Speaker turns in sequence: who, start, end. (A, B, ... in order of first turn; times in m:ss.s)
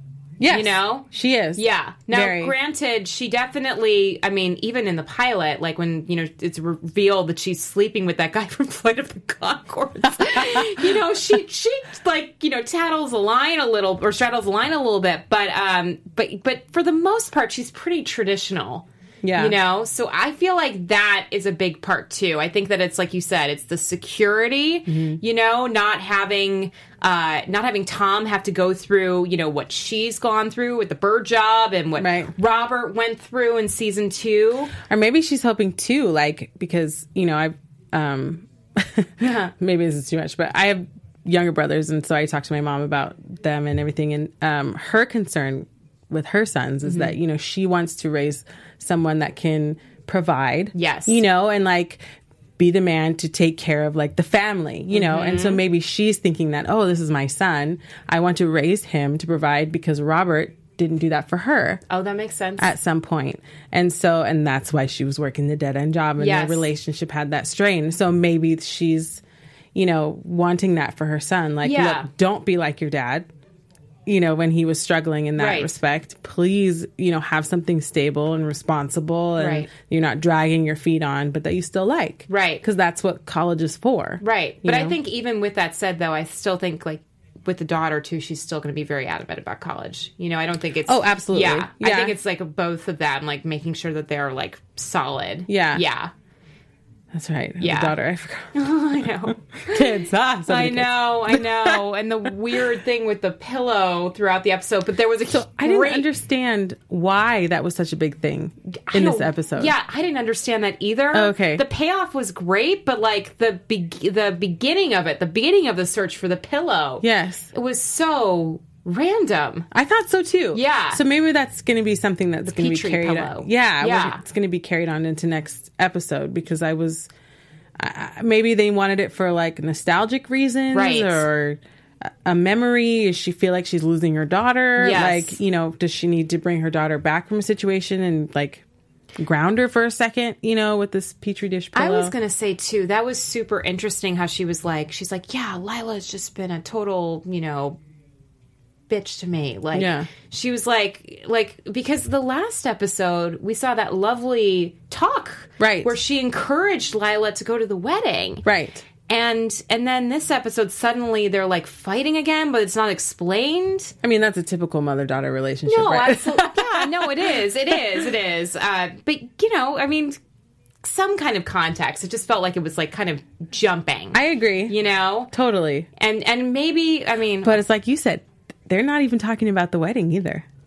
0:00.4-0:02.5 A
0:00.5-0:34.7 B
0:10.2-0:10.8 A
0:19.2-0:19.6 A
0:24.9-0:25.2 A
0:32.0-0:32.3 A
0:34.8-0:52.0 A
0:39.2-0:39.5 B
0:46.8-0:47.1 B
0:50.7-0:51.2 B
0:52.6-1:01.8 A
0:54.9-0:55.6 B
1:01.9-1:02.7 B
1:02.6-1:09.2 A
1:06.2-1:06.7 B
1:09.7-1:13.3 A
1:11.6-1:12.1 B
1:14.0-1:25.0 A
1:15.4-1:15.7 B
1:19.4-1:19.7 B
1:22.3-1:22.6 B
1:24.2-1:36.1 B
1:30.8-1:32.2 A
1:35.5-1:35.8 A
1:37.1-1:38.7 A
1:37.6-1:38.0 B
1:38.5-1:46.1 B
1:39.3-1:41.8 A
1:45.3-1:49.7 A
1:48.9-1:59.6 B
1:51.1-1:51.6 A
1:57.0-1:57.5 A
1:59.7-2:07.1 A
2:00.5-2:01.0 B
2:02.4-2:04.2 B
2:07.8-2:18.6 A
2:10.7-2:11.2 B
2:14.8-2:15.4 B
2:19.2-2:22.1 A
2:21.7-2:27.8 B
2:28.9-2:38.4 B
2:29.7-2:30.1 A
2:35.6-2:36.0 A
2:38.4-2:38.8 A
2:39.1-2:43.9 B
2:44.0-2:48.0 A
2:45.7-2:50.2 B
2:50.8-2:55.3 B
2:54.1-2:54.8 A
2:55.3-2:55.9 A
2:56.0-2:57.6 B
2:57.4-3:00.4 A